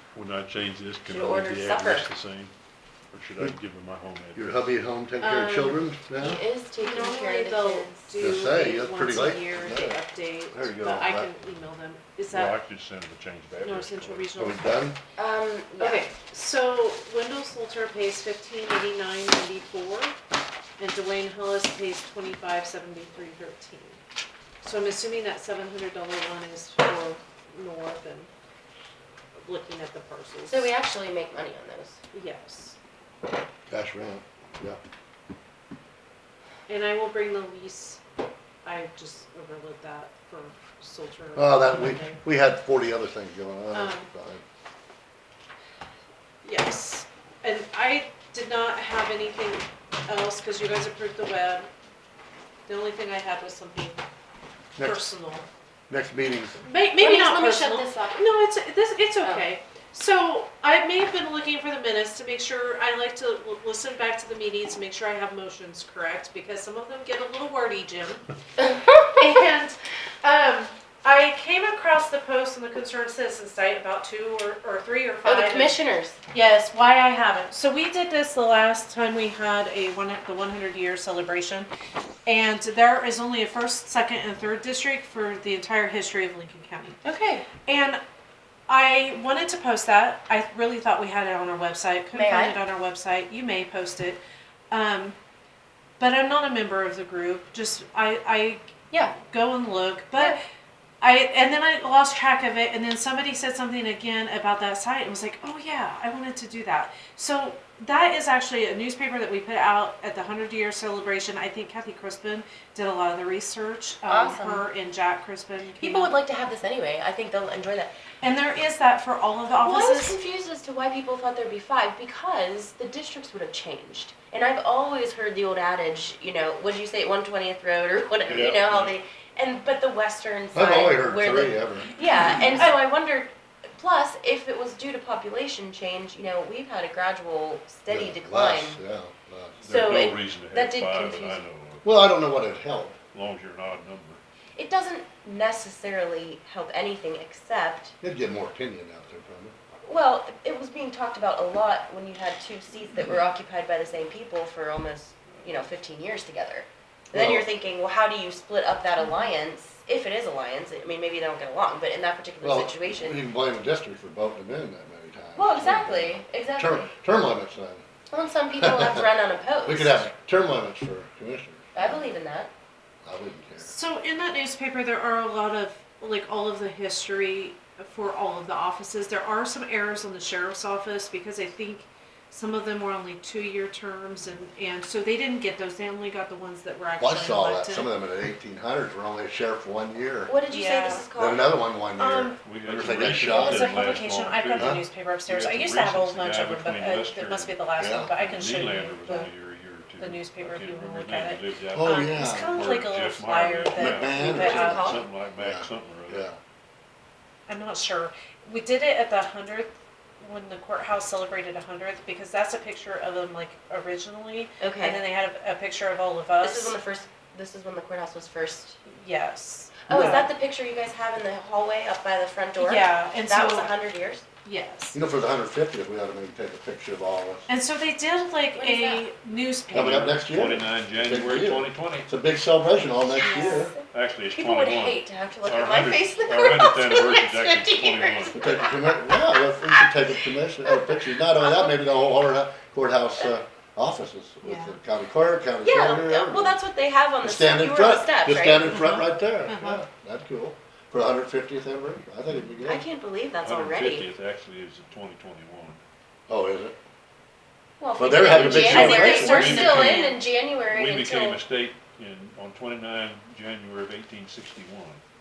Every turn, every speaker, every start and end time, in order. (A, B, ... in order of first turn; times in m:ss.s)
0:00.1-0:02.5 A
0:01.0-0:02.0 B
0:03.1-0:04.7 A
0:04.3-0:06.4 C
0:05.2-0:05.9 D
0:06.2-0:08.1 B
0:06.8-0:12.6 D
0:08.2-0:10.0 C
0:10.5-0:11.3 C
0:12.3-0:14.3 A
0:13.6-0:14.8 D
0:14.4-0:15.0 C
0:15.2-0:16.0 B
0:15.8-0:20.2 D
0:20.8-0:24.0 D
0:24.6-0:28.3 D
0:29.4-0:30.7 D
0:30.5-0:32.0 B
0:32.1-0:32.8 D
0:33.7-0:34.8 C
0:36.7-0:38.0 D
0:38.6-0:42.2 D
0:41.4-0:44.4 C
0:43.7-0:44.1 D
0:46.4-0:51.7 D
0:52.6-0:54.0 D
0:54.8-0:55.0 C
0:54.8-0:55.5 D
0:55.9-0:56.6 C
0:56.6-1:08.2 D
0:57.0-0:58.3 B
0:59.2-0:59.5 B
1:09.1-1:15.8 D
1:15.2-1:16.2 B
1:16.3-1:21.7 D
1:22.2-1:27.0 D
1:27.0-1:27.5 B
1:27.6-1:28.0 D
1:28.7-1:35.2 D
1:32.1-1:32.6 B
1:36.0-1:40.4 D
1:41.0-1:56.1 D
1:54.1-1:54.6 B
1:55.8-1:57.9 B
1:58.2-2:00.2 D
1:59.6-2:18.8 B
2:08.3-2:08.9 A
2:10.5-2:12.0 C
2:12.1-2:12.8 D
2:17.9-2:19.6 C
2:19.6-2:22.0 A
2:19.7-2:21.4 B
2:21.8-2:23.0 C
2:23.1-2:24.2 A
2:24.6-2:27.9 B
2:28.0-2:29.6 C
2:29.8-2:43.2 B
2:37.1-2:37.5 C
2:39.0-2:39.3 D
2:42.4-2:47.8 C
2:45.3-2:46.9 B
2:48.1-2:50.0 B
2:48.6-2:49.0 C
2:49.6-2:52.0 C
2:51.7-2:52.5 B
2:53.0-2:53.7 C
2:53.6-3:07.9 D
3:07.0-3:10.4 C
3:10.3-3:11.5 B
3:10.5-3:11.0 D
3:11.1-3:13.9 C
3:12.0-3:12.4 D
3:12.4-3:26.3 A
3:13.2-3:19.3 D
3:14.5-3:14.8 C
3:17.8-3:18.1 C
3:20.0-3:24.8 D
3:21.7-3:22.6 C
3:23.7-3:26.4 C
3:24.2-3:25.1 B
3:27.5-3:36.8 D
3:34.6-3:35.0 B
3:36.4-3:38.8 B
3:38.9-3:40.3 D
3:39.9-3:44.2 B
3:42.6-3:43.7 D
3:44.4-3:45.0 D
3:44.9-3:47.5 C
3:47.5-3:50.1 D
3:48.5-3:49.1 B
3:49.7-3:53.7 C
3:49.7-3:52.1 A
3:53.2-4:01.8 B
3:53.3-3:53.6 D
3:53.9-3:58.6 A
3:58.3-4:06.6 C
4:04.4-4:04.8 D
4:05.6-4:08.8 B
4:07.2-4:12.8 C
4:08.6-4:09.8 D
4:12.6-4:14.1 B
4:13.4-4:15.8 A
4:16.3-4:16.8 C
4:17.8-4:21.4 B
4:18.0-4:19.7 C
4:18.3-4:20.2 A
4:18.6-4:20.2 D
4:20.7-4:25.0 A